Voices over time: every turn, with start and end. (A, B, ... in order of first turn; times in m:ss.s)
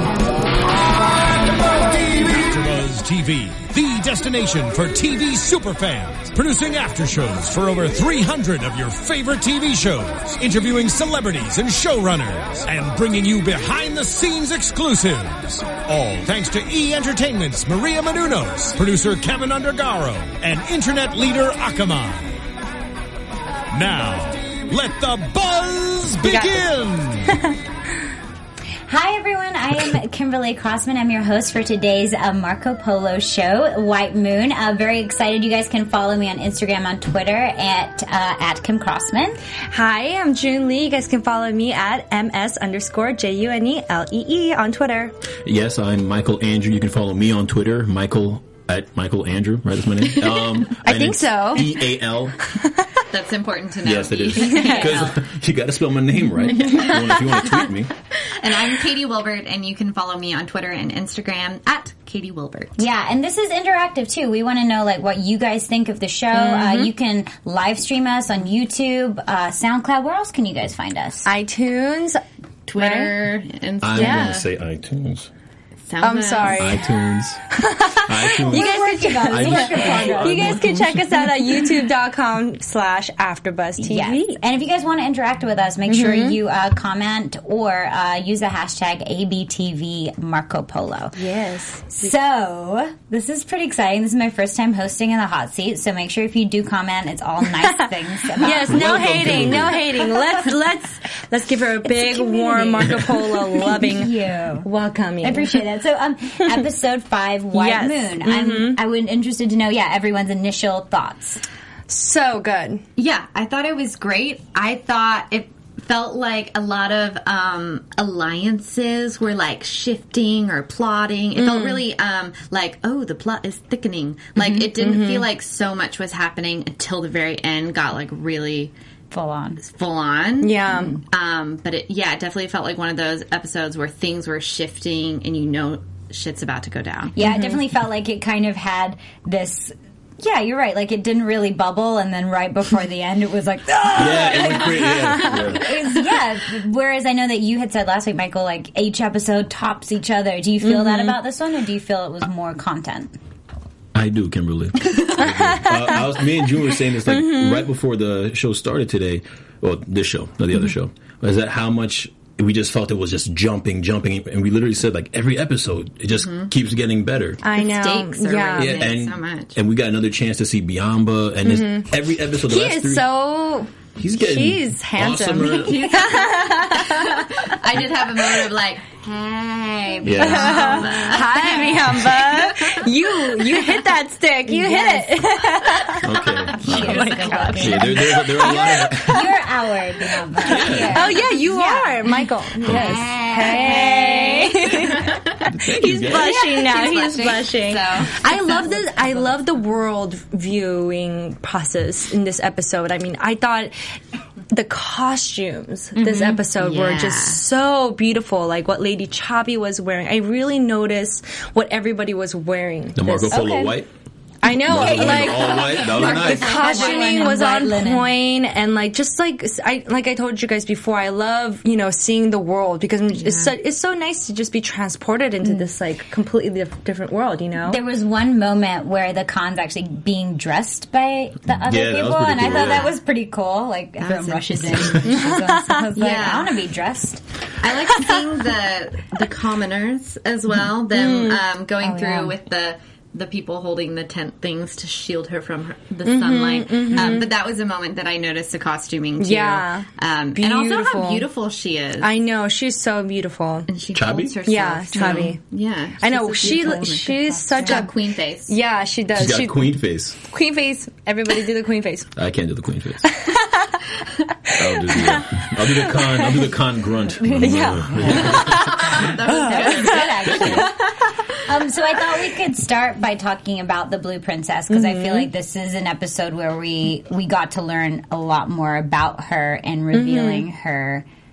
0:01.8-0:22.4 A
0:23.7-0:27.4 A
0:26.3-0:26.7 B
0:28.9-0:39.4 C
0:39.7-0:45.1 B
0:45.4-0:52.5 D
0:50.8-0:51.8 B
0:52.6-0:52.9 B
0:53.1-0:55.3 E
0:53.8-0:57.9 D
0:54.4-0:54.9 B
0:54.4-0:54.8 C
0:56.6-0:57.2 E
0:58.3-1:02.8 E
1:02.8-1:11.3 C
1:06.3-1:06.9 B
1:11.2-1:12.2 B
1:12.7-1:14.5 E
1:12.8-1:13.2 B
1:13.8-1:15.3 D
1:14.0-1:14.4 B
1:15.9-1:16.8 E
1:16.0-1:17.0 B
1:16.5-1:21.1 D
1:17.5-1:24.4 B
1:18.4-1:20.6 C
1:23.8-1:31.2 C
1:25.9-1:26.4 B
1:31.2-1:32.1 B
1:31.9-1:40.5 C
1:37.5-1:45.6 B
1:38.7-1:39.9 D
1:41.8-1:44.7 C
1:45.2-1:51.4 C
1:47.5-1:48.8 B
1:51.9-1:52.8 B
1:53.0-2:08.7 E
2:01.4-2:01.8 B
2:04.4-2:05.3 B
2:09.1-2:09.6 C
2:09.6-2:17.2 E
2:10.4-2:11.0 B
2:17.2-2:33.2 C
2:17.2-2:17.6 B
2:23.9-2:25.7 D
2:30.6-2:31.2 B
2:33.9-2:47.4 D
2:35.2-2:36.0 B
2:37.0-2:37.7 B
2:46.2-2:46.5 E
2:47.4-2:48.9 B
2:47.5-2:49.6 E
2:48.6-2:53.1 D
2:51.5-2:51.9 B
2:52.5-2:57.2 B
2:54.0-2:55.9 D
2:55.5-3:03.6 E
3:00.0-3:00.9 D
3:00.2-3:06.1 B
3:00.3-3:01.9 C
3:04.4-3:05.5 C
3:06.0-3:09.3 D
3:06.2-3:08.0 E
3:06.5-3:14.7 C
3:06.7-3:09.3 B
3:10.4-3:11.2 D
3:10.5-3:15.1 B
3:12.6-3:15.5 E
3:15.5-3:16.4 D
3:15.6-3:23.7 B
3:16.1-3:18.2 E
3:18.6-3:19.4 C
3:24.5-3:33.4 B
3:26.0-3:26.4 C
3:26.6-3:27.4 E
3:33.0-3:33.9 D
3:33.3-3:33.8 C
3:34.4-3:47.8 B
3:34.4-3:36.6 D
3:34.8-3:38.1 C
3:35.0-3:37.6 E
3:43.1-3:43.5 E
3:47.6-3:57.2 C
3:51.5-3:52.9 D
3:52.5-3:52.9 E
3:54.0-3:55.2 E
3:54.7-3:55.1 D
3:55.0-3:55.9 B
3:56.0-3:56.6 E
3:57.6-4:12.1 E
4:00.9-4:02.3 B
4:06.0-4:07.3 B
4:09.2-4:11.3 B
4:12.0-4:13.7 B
4:13.7-4:18.5 E
4:13.9-4:14.4 D
4:14.5-4:15.4 B
4:15.0-4:15.3 C
4:16.0-4:17.9 B
4:16.1-4:17.9 C
4:18.4-4:22.1 B
4:19.1-4:20.2 D
4:22.1-4:23.1 D
4:23.1-4:23.7 B
4:24.5-4:26.5 B
4:24.5-4:29.1 D
4:27.2-4:41.0 C
4:27.3-4:30.5 B
4:28.1-4:31.3 E
4:30.2-4:30.7 D
4:34.7-4:35.3 B
4:39.9-4:40.4 B